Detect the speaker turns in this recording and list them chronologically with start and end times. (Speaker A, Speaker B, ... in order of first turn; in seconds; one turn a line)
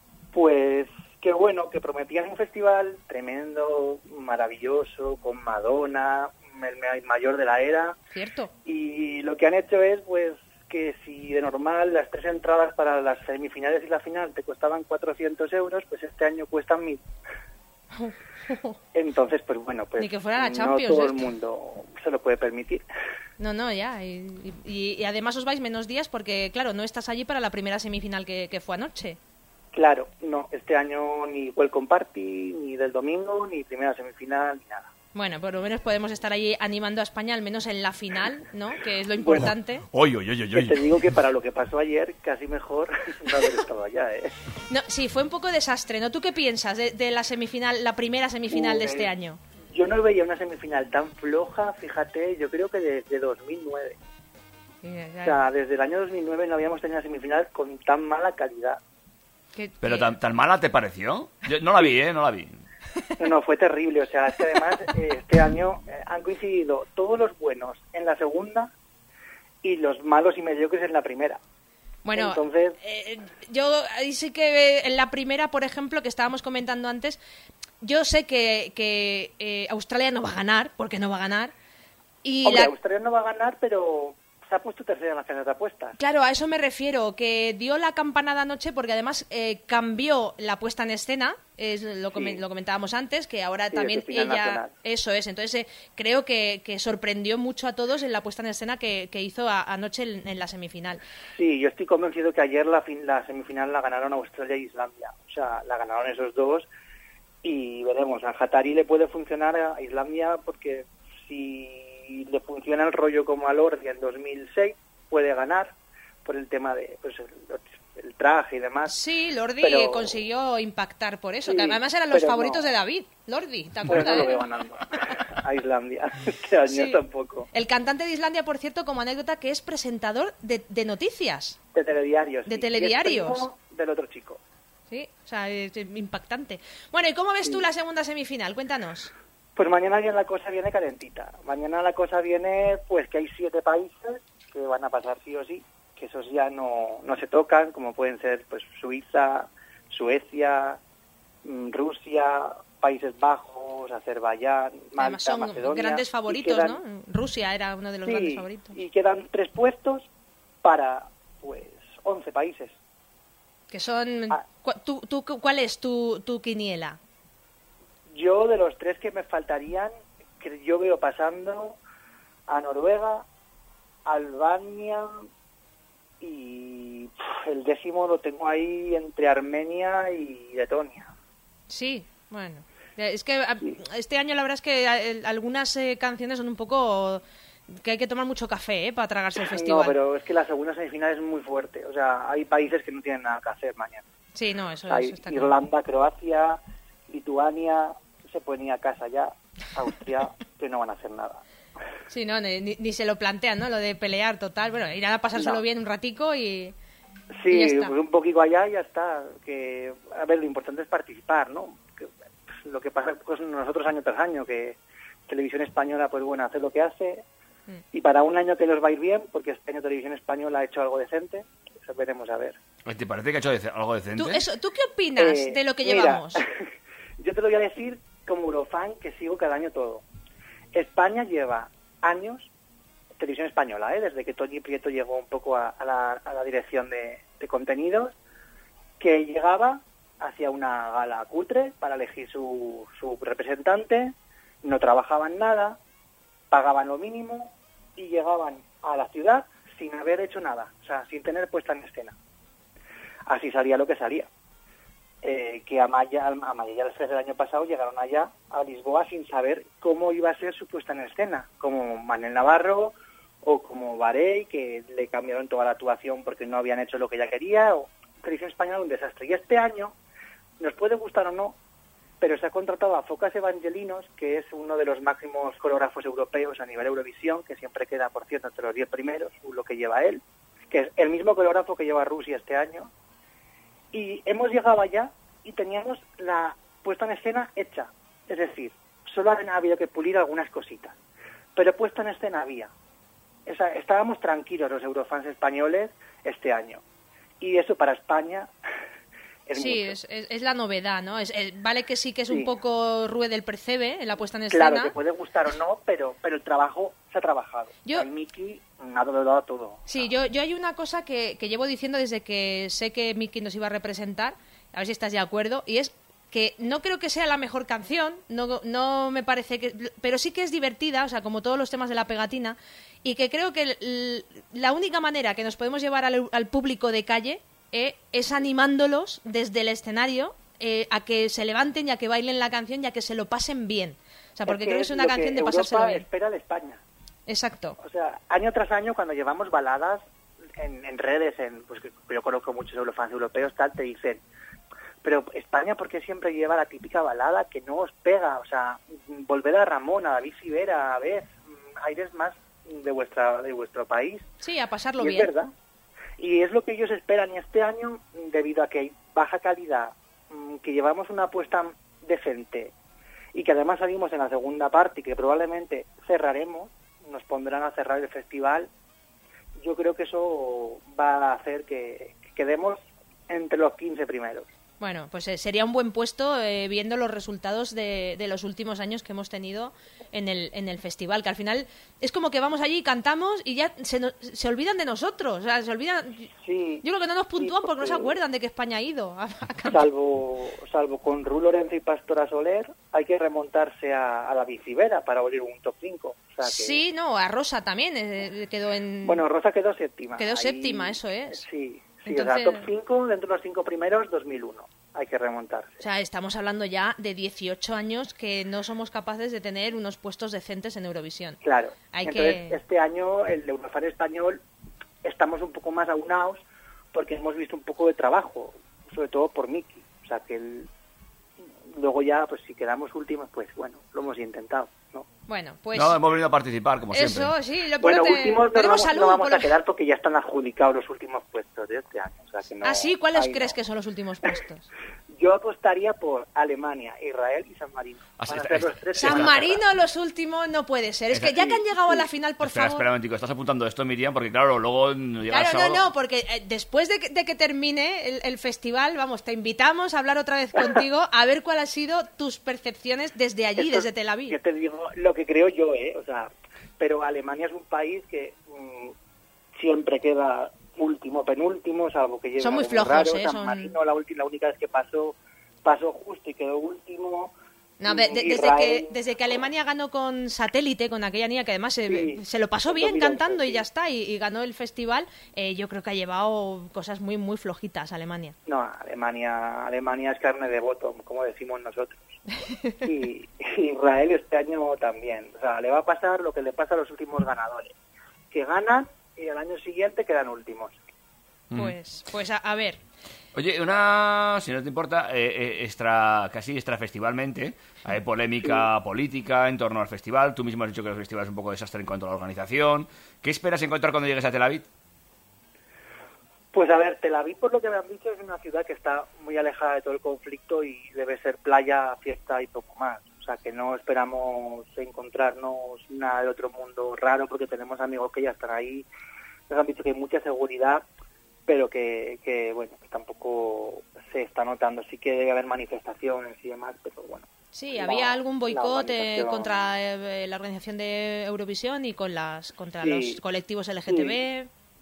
Speaker A: 0.3-8.0
Speaker B: 8.1-8.5
Speaker A: 8.6-17.0
Speaker B: 18.0-18.8
Speaker A: 18.9-22.8
Speaker B: 20.0-21.3
Speaker B: 23.4-29.2
Speaker A: 29.7-34.9
Speaker B: 35.1-39.8
Speaker A: 39.2-39.5
Speaker C: 39.4-41.0
Speaker A: 40.5-44.3
Speaker B: 44.7-49.4
Speaker A: 48.5-49.1
Speaker A: 49.7-54.0
Speaker B: 54.8-55.4
Speaker A: 55.2-58.8
Speaker B: 59.5-60.1
Speaker C: 59.8-62.6
Speaker A: 63.2-68.7
Speaker A: 69.6-71.4
Speaker B: 72.0-77.2
Speaker A: 72.1-72.8
Speaker B: 77.8-81.5
Speaker B: 82.2-82.7
Speaker A: 82.4-85.9
Speaker B: 86.0-101.0
Speaker A: 92.1-92.4
Speaker A: 93.7-94.7
Speaker A: 101.3-106.7
Speaker A: 107.4-118.9
Speaker B: 118.9-124.4
Speaker A: 119.6-120.1
Speaker A: 121.5-122.7
Speaker A: 123.8-127.5
Speaker B: 126.7-127.0
Speaker B: 127.5-131.6
Speaker A: 131.7-134.4
Speaker B: 132.5-133.5
Speaker B: 134.9-139.1
Speaker A: 139.6-150.8
Speaker A: 151.4-156.8
Speaker B: 155.0-158.7
Speaker A: 158.0-160.1
Speaker A: 160.6-162.8
Speaker B: 163.7-167.0
Speaker A: 168.1-171.8
Speaker A: 172.5-173.2
Speaker A: 174.1-175.1
Speaker A: 176.2-181.1
Speaker B: 181.7-190.0
Speaker A: 189.4-194.0
Speaker B: 194.3-195.5
Speaker A: 194.9-201.4
Speaker B: 202.1-206.7
Speaker A: 205.3-205.6
Speaker A: 207.4-212.1
Speaker B: 207.5-207.9
Speaker A: 212.6-217.2
Speaker A: 217.9-222.6
Speaker C: 222.8-224.4
Speaker B: 224.2-226.4
Speaker A: 225.2-226.4
Speaker A: 227.2-230.0
Speaker A: 230.7-232.5
Speaker A: 233.2-238.1
Speaker A: 239.0-245.8
Speaker A: 246.5-252.2
Speaker A: 253.3-254.3
Speaker A: 255.2-269.9
Speaker A: 270.6-271.6
Speaker A: 272.2-282.9
Speaker A: 283.9-290.9
Speaker A: 291.5-292.7
Speaker A: 293.4-296.8
Speaker A: 297.4-298.5
Speaker A: 299.5-300.0
Speaker B: 299.5-304.9
Speaker A: 302.3-302.6
Speaker A: 304.5-310.1
Speaker B: 309.9-336.1
Speaker A: 334.4-336.8
Speaker B: 337.3-337.8
Speaker A: 337.8-340.0
Speaker A: 340.6-344.2
Speaker A: 345.0-354.3
Speaker B: 354.4-355.3
Speaker A: 355.0-355.5
Speaker A: 356.2-362.7
Speaker A: 363.3-368.7
Speaker A: 369.6-374.5
Speaker B: 374.8-386.3
Speaker A: 386.4-386.8
Speaker B: 386.8-389.9
Speaker A: 387.4-388.1
Speaker A: 389.6-396.8
Speaker B: 396.4-399.2
Speaker A: 399.0-405.8
Speaker B: 400.2-401.4
Speaker B: 402.1-402.7
Speaker B: 405.8-411.4
Speaker A: 411.4-414.4
Speaker B: 411.9-412.6
Speaker A: 415.0-416.4
Speaker A: 416.9-420.7
Speaker A: 421.8-425.1
Speaker B: 425.3-426.0
Speaker C: 425.7-427.3
Speaker B: 426.9-429.5
Speaker A: 427.8-433.6
Speaker B: 432.6-434.6
Speaker A: 435.1-439.6
Speaker C: 438.2-439.4
Speaker B: 439.0-442.8
Speaker C: 441.1-441.6
Speaker C: 442.4-445.8
Speaker B: 445.3-454.4
Speaker A: 453.6-458.9
Speaker A: 459.6-467.3
Speaker B: 462.4-463.7
Speaker B: 467.8-478.4
Speaker A: 467.8-468.9
Speaker A: 471.9-473.6
Speaker A: 478.5-482.1
Speaker B: 482.4-482.8
Speaker A: 482.8-487.7
Speaker A: 488.3-490.8
Speaker B: 491.5-492.8
Speaker C: 493.3-504.6
Speaker A: 506.5-518.9
Speaker A: 519.5-520.8
Speaker A: 521.5-529.6
Speaker B: 527.5-534.5
Speaker A: 532.8-533.2
Speaker A: 533.9-534.2